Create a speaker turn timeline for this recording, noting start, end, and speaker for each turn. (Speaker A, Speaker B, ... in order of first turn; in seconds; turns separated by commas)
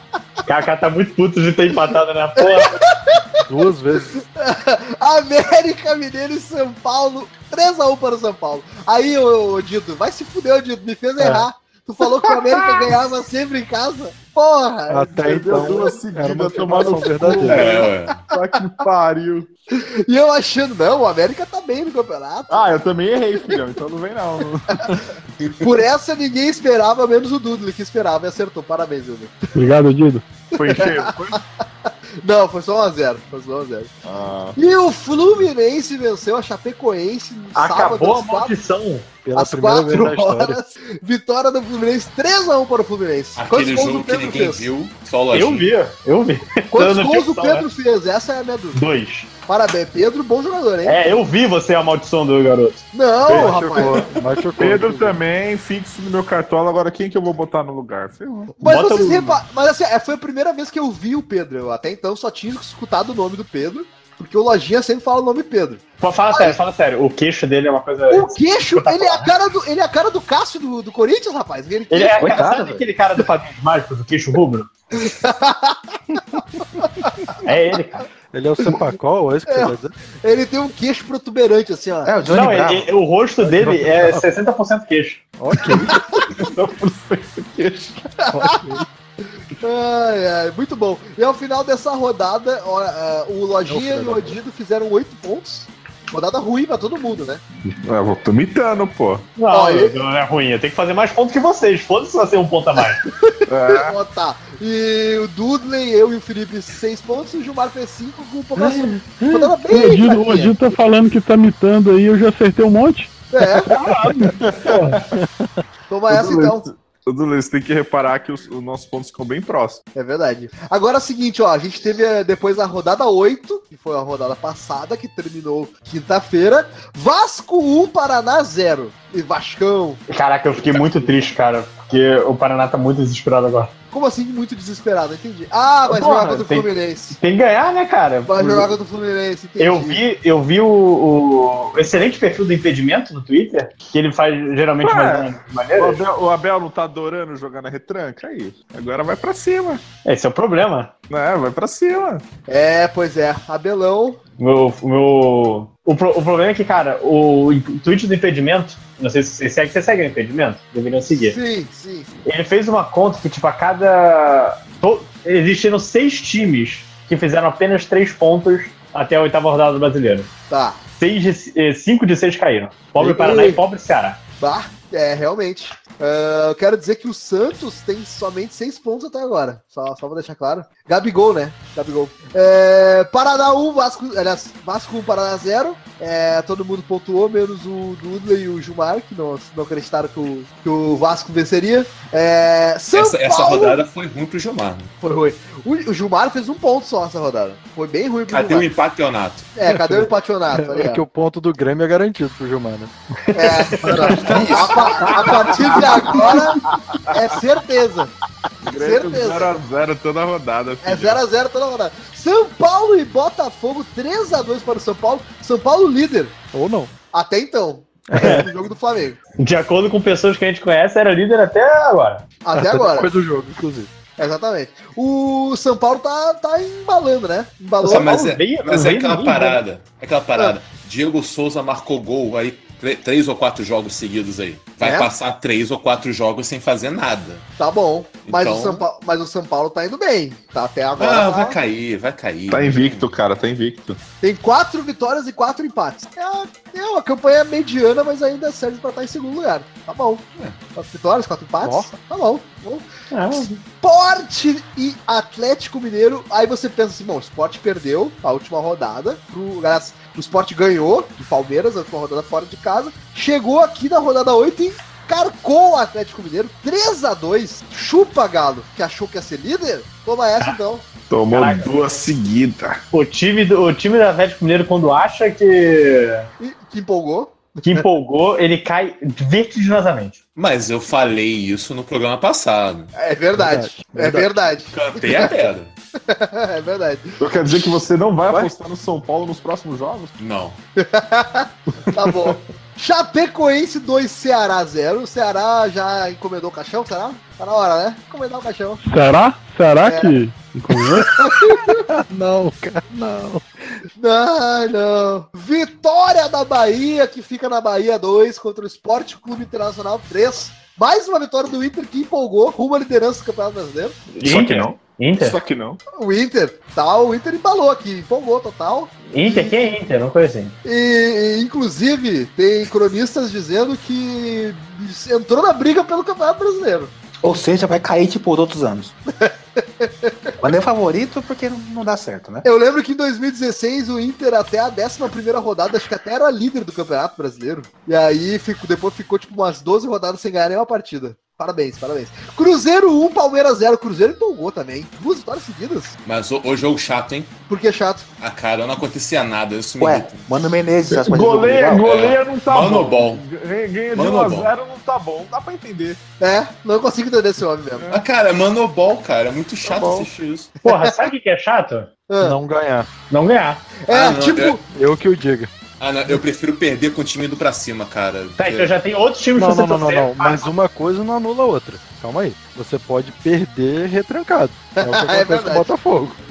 Speaker A: 0.5-2.8, Speaker B: 2.4-3.4, Speaker C: 3.5-4.2, Speaker B: 4.3-15.1, Speaker A: 11.2-11.5, Speaker C: 14.9-17.7, Speaker D: 15.2-19.5, Speaker B: 16.8-18.4, Speaker E: 17.5-18.3, Speaker B: 19.7-22.7, Speaker D: 22.5-25.2, Speaker B: 25.6-29.5, Speaker F: 29.6-30.3, Speaker A: 30.6-31.4, Speaker B: 30.6-31.4, Speaker B: 32.2-33.9, Speaker D: 34.0-34.6, Speaker B: 34.6-38.5, Speaker A: 37.5-39.1, Speaker C: 39.2-40.6, Speaker B: 39.4-44.7, Speaker E: 43.4-45.7, Speaker A: 45.3-47.7, Speaker B: 46.7-48.8, Speaker A: 48.8-49.3, Speaker B: 49.5-51.0, Speaker A: 50.8-53.5, Speaker B: 52.9-54.1, Speaker C: 53.3-55.2, Speaker D: 54.6-58.5, Speaker B: 58.6-66.6, Speaker A: 58.6-59.4, Speaker A: 66.0-69.3, Speaker B: 68.1-72.3, Speaker A: 71.9-74.7, Speaker G: 72.2-72.8, Speaker B: 75.0-77.3, Speaker C: 76.2-76.4, Speaker A: 77.4-78.1, Speaker C: 78.3-80.0, Speaker B: 79.5-82.1, Speaker G: 82.0-82.9, Speaker A: 82.3-85.2, Speaker C: 83.4-84.2, Speaker C: 85.4-85.9, Speaker B: 85.8-86.2, Speaker D: 86.3-88.1, Speaker C: 88.3-88.9, Speaker B: 88.3-88.8, Speaker B: 89.6-97.4, Speaker C: 93.7-94.4, Speaker D: 97.8-99.3, Speaker A: 99.4-103.0, Speaker B: 99.5-100.0, Speaker B: 103.3-110.5, Speaker D: 103.5-104.0, Speaker A: 108.6-109.5, Speaker F: 109.7-113.2, Speaker B: 113.3-113.7, Speaker C: 114.1-114.4, Speaker D: 114.3-115.0, Speaker A: 114.6-115.0, Speaker B: 115.9-116.7, Speaker D: 116.1-119.8, Speaker B: 119.9-130.0, Speaker A: 130.1-133.7, Speaker B: 133.9-137.2, Speaker A: 135.8-138.7, Speaker B: 138.3-140.0, Speaker A: 139.6-146.0, Speaker D: 144.8-149.8, Speaker A: 150.1-150.9, Speaker D: 151.1-152.2, Speaker B: 152.5-154.2, Speaker A: 154.4-161.4, Speaker B: 161.1-162.1, Speaker A: 162.3-170.3, Speaker B: 170.5-170.8, Speaker A: 171.0-174.2, Speaker B: 173.0-173.6, Speaker B: 174.4-193.8, Speaker E: 192.9-194.9, Speaker B: 195.0-198.7, Speaker E: 198.3-199.5, Speaker B: 199.6-201.0, Speaker C: 199.7-202.9, Speaker A: 203.3-204.0, Speaker B: 203.3-208.1, Speaker E: 203.8-206.3, Speaker D: 208.6-211.2, Speaker B: 208.8-209.5, Speaker B: 210.8-216.3, Speaker C: 216.5-216.9, Speaker B: 217.1-219.2, Speaker C: 218.1-218.5, Speaker A: 218.2-218.4, Speaker A: 219.4-222.2, Speaker B: 222.4-223.1, Speaker C: 222.5-223.9, Speaker B: 224.2-228.2, Speaker A: 227.8-229.6, Speaker E: 227.8-237.5, Speaker B: 234.8-235.1, Speaker B: 237.6-241.6, Speaker E: 238.2-238.9, Speaker E: 241.0-243.1, Speaker D: 242.5-244.0, Speaker B: 244.2-252.9, Speaker C: 251.6-251.9, Speaker A: 253.1-253.6, Speaker B: 253.8-270.9, Speaker D: 271.1-272.8, Speaker A: 271.3-271.7, Speaker A: 272.9-276.3, Speaker B: 276.4-277.9, Speaker A: 277.6-280.2, Speaker E: 280.4-282.9, Speaker B: 282.9-285.5, Speaker C: 283.4-284.3, Speaker E: 284.7-285.7, Speaker B: 286.1-287.3, Speaker D: 287.2-290.2, Speaker E: 290.2-290.6, Speaker B: 290.8-298.8, Speaker F: 298.8-301.1, Speaker B: 299.8-300.2, Speaker B: 301.0-301.8, Speaker C: 301.9-303.4, Speaker B: 304.0-314.0, Speaker D: 314.1-315.8, Speaker A: 314.2-315.4, Speaker B: 316.0-319.8, Speaker A: 319.1-320.6, Speaker B: 320.6-326.9, Speaker G: 327.2-328.9, Speaker B: 329.2-330.3, Speaker G: 330.4-332.5, Speaker B: 332.4-346.0, Speaker E: 346.1-347.3, Speaker B: 347.5-348.1, Speaker E: 348.2-350.3, Speaker G: 349.8-351.9, Speaker D: 350.9-356.0, Speaker E: 351.8-353.2, Speaker E: 353.9-354.5, Speaker B: 356.2-357.9, Speaker E: 357.9-360.5, Speaker C: 359.7-360.1, Speaker B: 360.6-361.0, Speaker A: 360.6-361.9, Speaker B: 362.1-362.4, Speaker C: 362.2-362.9, Speaker A: 363.1-363.7, Speaker B: 363.9-364.6, Speaker E: 363.9-364.6, Speaker C: 364.7-365.5, Speaker E: 365.8-368.7, Speaker A: 368.4-370.5, Speaker C: 369.4-376.2, Speaker B: 374.8-375.7